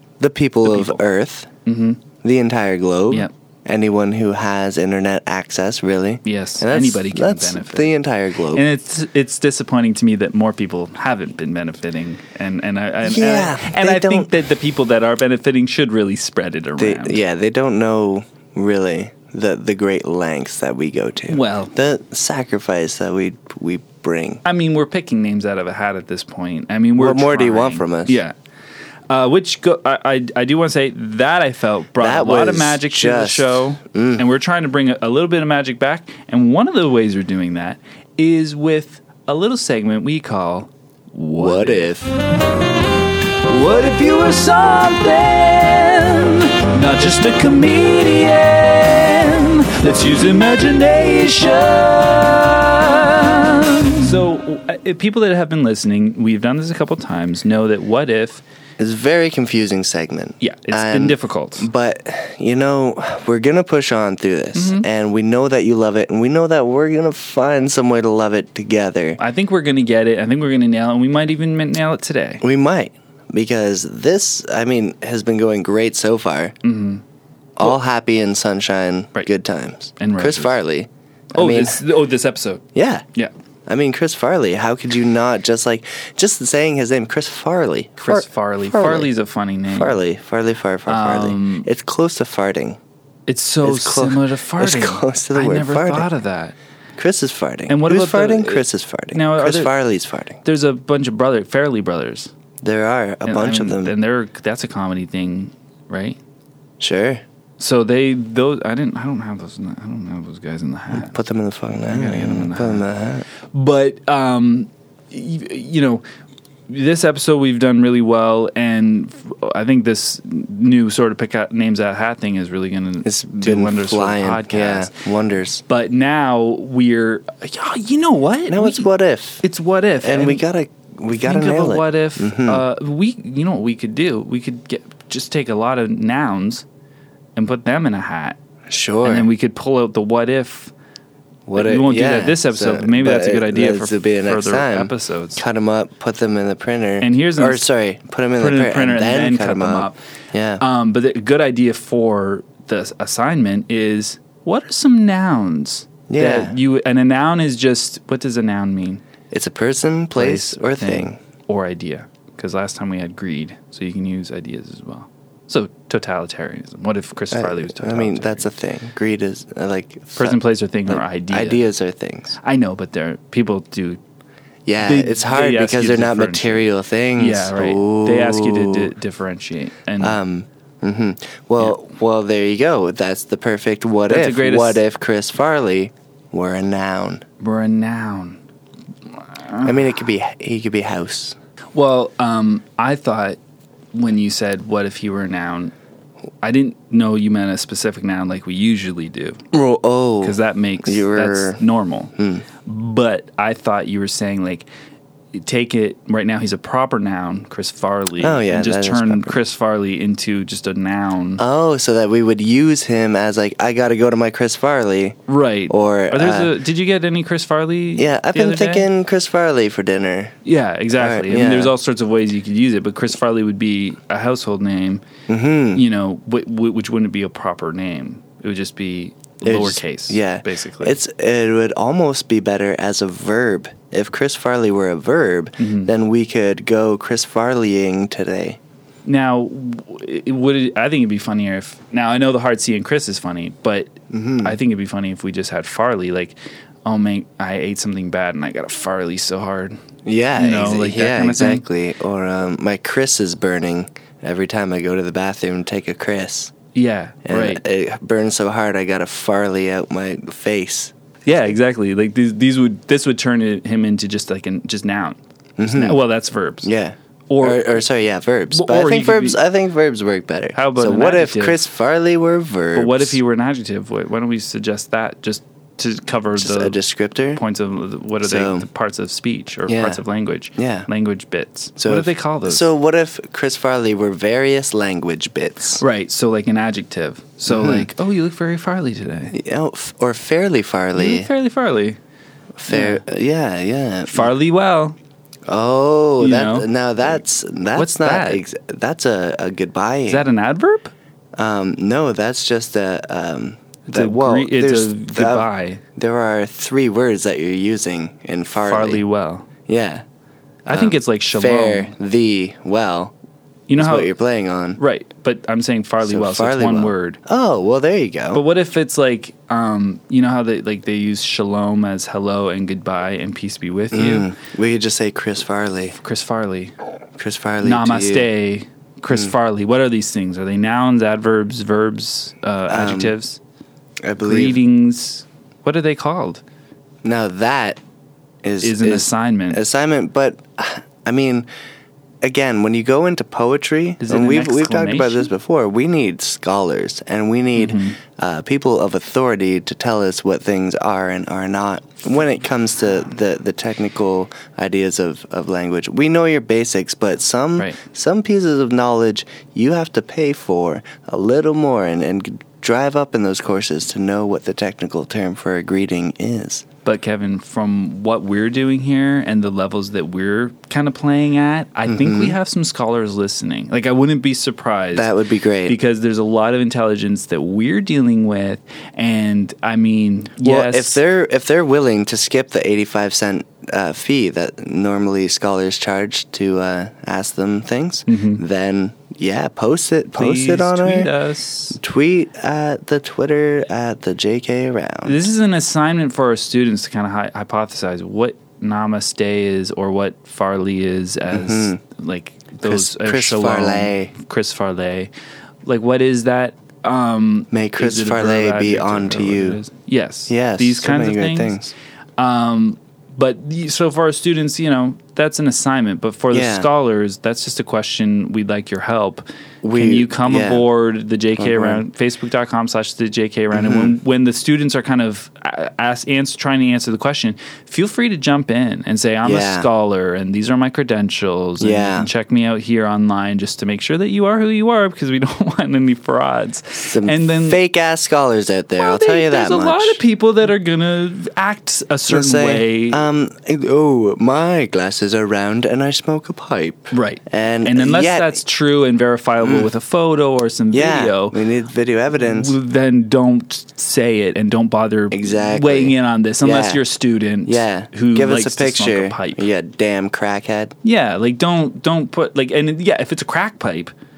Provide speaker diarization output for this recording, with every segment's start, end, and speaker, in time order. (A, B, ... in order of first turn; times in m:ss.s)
0:00.2-0:01.5 A
0:00.6-0:01.0 B
0:01.6-0:02.0 B
0:02.2-0:08.6 A
0:06.2-0:07.9 B
0:08.5-0:17.2 B
0:13.0-0:14.3 A
0:16.8-0:24.4 A
0:21.3-0:21.7 B
0:24.4-0:28.3 B
0:27.0-0:28.2 A
0:29.1-0:41.9 B
0:32.0-0:34.2 A
0:41.3-0:42.1 A
0:43.4-0:58.4 B
0:58.8-1:09.2 A
1:00.4-1:01.7 B
1:04.5-1:04.8 B
1:09.2-1:12.4 B
1:12.4-1:16.5 A
1:16.6-1:17.0 B
1:17.6-1:21.8 A
1:20.0-1:20.6 B
1:21.3-1:22.6 B
1:22.7-1:23.0 A
1:23.7-1:29.1 A
1:28.0-1:30.0 B
1:29.7-1:32.8 A
1:30.9-1:31.7 B
1:33.3-1:36.5 B
1:33.6-1:36.1 A
1:37.0-1:40.4 A
1:37.7-1:39.7 B
1:40.4-1:42.3 B
1:42.6-1:43.9 A
1:43.2-1:46.2 B
1:46.8-1:47.2 A
1:47.6-1:51.2 B
1:50.9-1:53.2 A
1:51.9-1:52.9 B
1:53.5-1:56.0 B
1:56.7-2:04.9 B
2:03.0-2:05.6 A
2:05.7-2:08.9 B
2:08.5-2:09.4 A
2:09.4-2:10.4 B
2:10.0-2:12.6 A
2:11.1-2:16.6 B
2:17.4-2:18.4 B
2:18.7-2:19.3 A
2:19.0-2:20.7 B
2:21.5-2:30.6 A
2:21.5-2:25.4 B
2:27.0-2:27.7 B
2:28.4-2:30.0 B
2:30.6-2:39.0 B
2:36.1-2:36.6 A
2:39.3-2:41.2 A
2:40.1-2:48.5 B
2:47.3-2:52.4 A
2:50.1-2:51.6 B
2:52.4-2:54.0 B
2:54.6-2:58.9 A
2:54.8-2:56.6 B
2:57.2-3:00.2 B
3:00.0-3:07.2 A
3:04.1-3:04.8 B
3:07.4-3:08.4 B
3:09.2-3:09.9 B
3:09.6-3:11.4 A
3:11.7-3:13.4 B
3:13.9-3:15.7 B
3:16.4-3:19.4 B
3:19.5-3:21.6 A
3:20.2-3:24.7 B
3:22.2-3:22.4 A
3:25.3-3:31.4 B
3:28.2-3:29.4 A
3:31.4-3:35.2 A
3:35.3-3:38.9 B
3:35.7-3:36.5 A
3:38.0-3:40.3 A
3:40.4-3:45.0 B
3:41.0-3:41.7 A
3:45.3-3:45.8 A
3:45.7-3:51.0 B
3:49.4-3:58.6 A
3:55.6-3:55.9 B
3:59.0-4:06.3 B
4:04.1-4:04.6 A
4:06.8-4:09.8 B
4:10.0-4:16.5 A
4:10.4-4:11.6 B
4:16.7-4:17.6 B
4:17.2-4:20.9 A
4:21.2-4:26.7 B
4:25.6-4:26.0 A
4:26.6-4:33.2 A
4:27.3-4:27.8 B
4:28.5-4:29.4 B
4:30.5-4:31.6 B
4:32.7-4:36.8 B
4:36.4-4:37.4 A
4:37.3-4:42.7 B
4:38.2-4:38.7 A
4:39.7-4:40.0 A
4:40.6-4:40.9 A
4:41.8-4:45.8 A
4:45.8-4:49.4 B
4:47.5-4:47.9 A
4:49.3-4:51.3 A
4:50.9-4:52.0 B
4:52.6-4:54.3 A
4:52.7-4:53.0 B
4:54.1-4:55.0 B
4:55.5-5:00.3 A
4:56.2-4:57.2 B
4:57.7-4:58.4 B
5:00.1-5:00.9 B
5:01.4-5:09.0 A
5:03.9-5:05.8 B
5:08.6-5:09.5 B
5:09.7-5:10.0 A
5:10.6-5:11.9 B
5:10.7-5:13.1 A
5:13.7-5:14.1 B
5:13.8-5:14.8 A
5:14.8-5:17.2 B
5:16.0-5:18.4 A
5:18.3-5:24.3 B
5:23.9-5:26.0 A
5:26.0-5:26.7 B
5:27.2-5:28.3 A
5:27.6-5:33.4 B
5:32.7-5:33.2 A
5:34.0-5:34.6 A
5:34.2-5:36.4 B
5:37.0-5:37.8 A
5:38.4-5:41.5 A
5:38.6-5:39.6 B
5:42.2-6:06.6 A
5:44.0-5:45.3 B
5:47.6-5:48.0 B
6:06.8-6:15.1 B
6:11.9-6:12.4 A
6:14.9-6:15.8 A
6:15.6-6:21.0 B
6:20.4-6:31.1 A
6:28.1-6:28.4 B
6:30.1-6:31.8 B
6:31.7-6:35.2 A
6:35.0-6:45.1 B
6:41.3-6:41.8 A
6:42.6-6:44.1 A
6:45.6-7:17.6 B
6:47.5-6:49.6 A
6:50.3-6:51.7 A
6:56.3-6:56.7 A
6:59.6-7:00.7 A
7:01.4-7:01.8 A
7:03.5-7:03.9 A
7:09.2-7:09.7 A
7:11.6-7:12.1 A
7:16.8-7:20.0 A
7:18.8-7:23.0 B
7:22.1-7:28.4 A
7:26.9-7:31.4 B
7:29.4-7:29.7 A
7:30.7-7:32.5 A
7:32.2-7:39.5 B
7:35.1-7:36.8 A
7:37.4-7:40.7 A
7:40.8-7:43.9 B